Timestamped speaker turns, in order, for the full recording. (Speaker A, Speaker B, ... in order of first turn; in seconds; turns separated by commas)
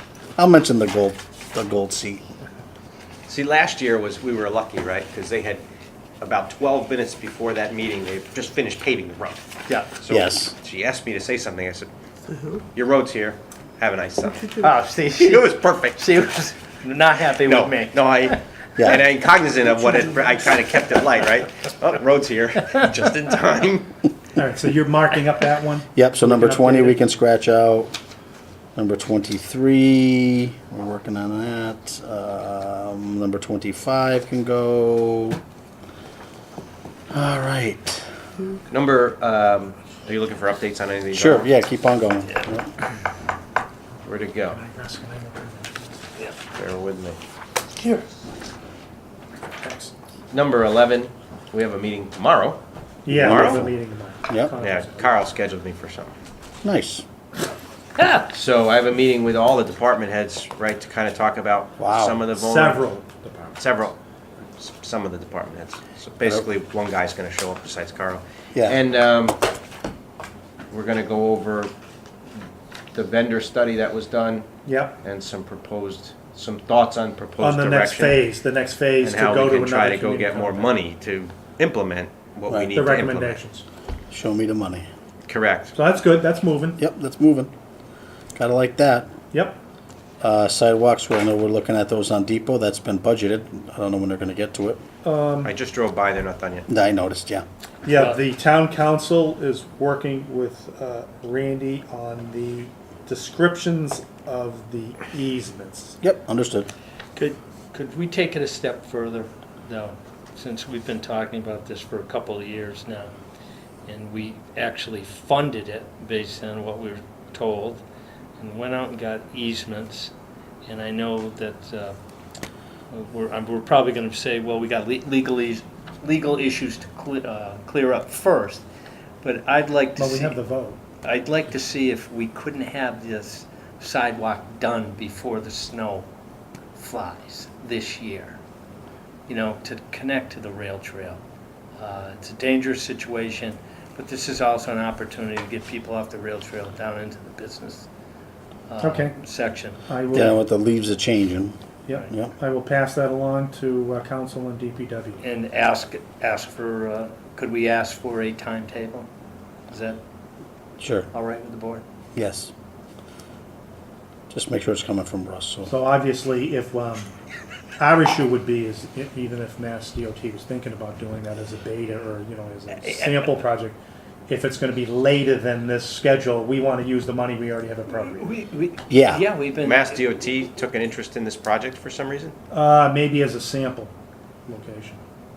Speaker A: 0.4-2.2, Speaker B: 3.3-5.6, Speaker B: 6.2-9.4, Speaker B: 10.0-11.9, Speaker A: 10.1-10.6, Speaker B: 12.6-16.0, Speaker C: 14.4-18.4, Speaker B: 17.2-23.9, Speaker A: 18.8-19.0, Speaker D: 24.4-27.0, Speaker A: 25.9-27.9, Speaker A: 28.8-35.4, Speaker A: 37.1-38.1, Speaker B: 38.7-41.6, Speaker A: 41.1-42.7, Speaker B: 44.0-44.6, Speaker D: 44.5-45.8, Speaker B: 46.5-47.2, Speaker C: 47.8-48.1, Speaker D: 49.6-49.9, Speaker B: 50.3-52.6, Speaker D: 53.0-55.2, Speaker A: 53.1-53.7, Speaker B: 53.1-53.7, Speaker B: 54.6-56.1, Speaker A: 56.6-57.0, Speaker C: 58.0-58.3, Speaker B: 58.3-62.8, Speaker A: 61.8-62.2, Speaker D: 62.3-63.6, Speaker B: 63.6-64.0, Speaker B: 64.6-69.4, Speaker A: 68.5-68.8, Speaker B: 70.7-71.7, Speaker B: 72.3-74.5, Speaker D: 74.7-75.0, Speaker B: 75.0-78.2, Speaker D: 77.4-80.8, Speaker B: 79.0-83.4, Speaker D: 82.7-83.7, Speaker A: 84.1-84.9, Speaker B: 85.3-85.8, Speaker D: 85.7-86.8, Speaker A: 86.8-87.5, Speaker A: 88.3-89.1, Speaker D: 89.3-89.6, Speaker A: 90.2-94.8, Speaker D: 95.0-95.5, Speaker B: 95.4-96.7, Speaker A: 96.7-97.5, Speaker D: 97.8-106.0, Speaker C: 97.9-98.2, Speaker A: 106.0-106.7, Speaker C: 107.2-113.1, Speaker C: 113.9-117.8, Speaker C: 118.4-120.1, Speaker C: 120.7-122.0, Speaker C: 122.9-128.6, Speaker C: 129.2-130.4, Speaker D: 130.0-130.8, Speaker C: 131.0-136.1, Speaker C: 136.8-138.4, Speaker C: 139.3-141.2, Speaker C: 141.8-147.9, Speaker C: 148.7-149.8, Speaker D: 148.8-149.2, Speaker D: 149.9-150.4, Speaker A: 150.1-151.6, Speaker D: 151.9-155.2, Speaker C: 155.2-159.1, Speaker C: 159.7-160.0, Speaker A: 160.8-161.1, Speaker C: 161.1-161.8, Speaker A: 162.1-162.5, Speaker A: 164.3-165.7, Speaker D: 165.7-167.1, Speaker D: 167.8-178.3, Speaker C: 172.8-173.3, Speaker C: 177.9-180.1, Speaker A: 178.9-179.2, Speaker B: 179.6-182.3, Speaker D: 182.5-183.9, Speaker D: 184.5-185.0